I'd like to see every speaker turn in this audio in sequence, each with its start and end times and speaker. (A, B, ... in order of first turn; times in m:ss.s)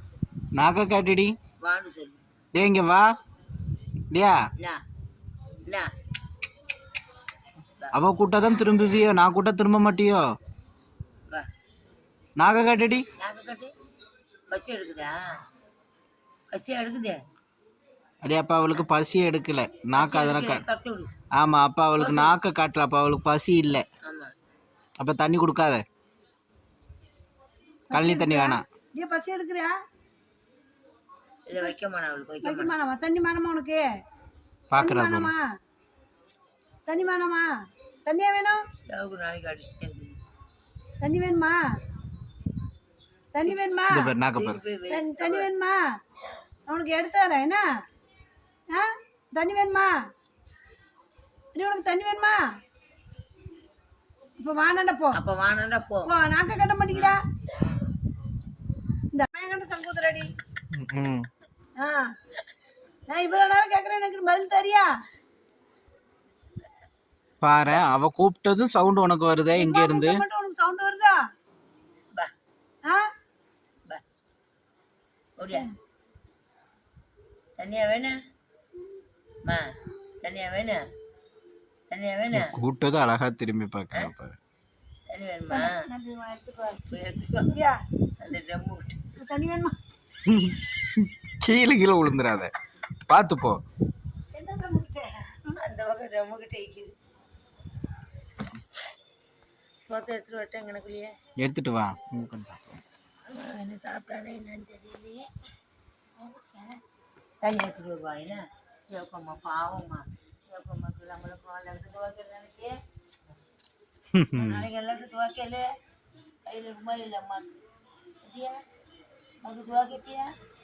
0:00.6-0:01.3 A
0:01.6-0:02.2 B
0:02.5-0:03.1 A
0:04.1-0:04.4 A
0:07.9-0:10.2 A
0:12.4-0:13.0 A
0:13.2-0:13.7 B
0:14.5-0:15.1 B
0:16.5-0:17.2 B
0:18.2-0:20.6 A
0:19.9-0:21.1 B
0:21.4-0:23.8 A
0:22.0-0:22.4 B
0:24.0-0:24.3 B
0:25.0-0:25.8 A
0:27.9-0:29.7 C
0:27.9-0:28.6 A
0:31.5-0:32.8 B
0:32.4-0:33.9 C
0:34.7-0:35.3 A
0:34.8-0:35.4 C
0:36.9-0:37.5 C
0:38.1-0:38.6 C
0:38.8-0:40.2 B
0:41.0-0:41.6 C
0:43.3-0:44.2 C
0:43.4-0:43.7 B
0:43.9-0:44.6 A
0:44.3-0:45.5 B
0:44.9-0:45.8 C
0:46.7-0:47.6 C
0:48.7-0:49.9 C
0:51.5-0:52.4 C
0:54.4-0:55.2 C
0:55.1-0:56.1 B
0:56.0-0:57.2 C
0:56.9-0:57.2 B
0:59.1-1:00.3 C
1:00.7-1:01.3 A
1:01.8-1:02.1 C
1:03.1-1:04.9 C
1:07.4-1:10.2 A
1:09.5-1:11.2 C
1:15.4-1:15.7 B
1:17.6-1:18.1 B
1:20.2-1:20.8 B
1:21.9-1:22.6 B
1:22.3-1:24.4 A
1:25.1-1:25.8 B
1:25.5-1:26.8 C
1:26.9-1:27.5 B
1:27.5-1:27.8 C
1:28.2-1:29.0 B
1:29.2-1:29.8 C
1:30.2-1:32.5 A
1:33.1-1:33.6 A
1:34.3-1:35.5 C
1:35.6-1:36.9 B
1:39.8-1:41.1 B
1:41.4-1:42.8 A
1:43.3-1:45.2 B
1:46.2-1:46.8 B
1:47.4-1:52.7 B
1:54.1-1:54.6 A
1:54.3-1:55.7 B
1:56.5-1:57.6 B
1:58.2-1:58.6 B
1:59.4-2:00.3 B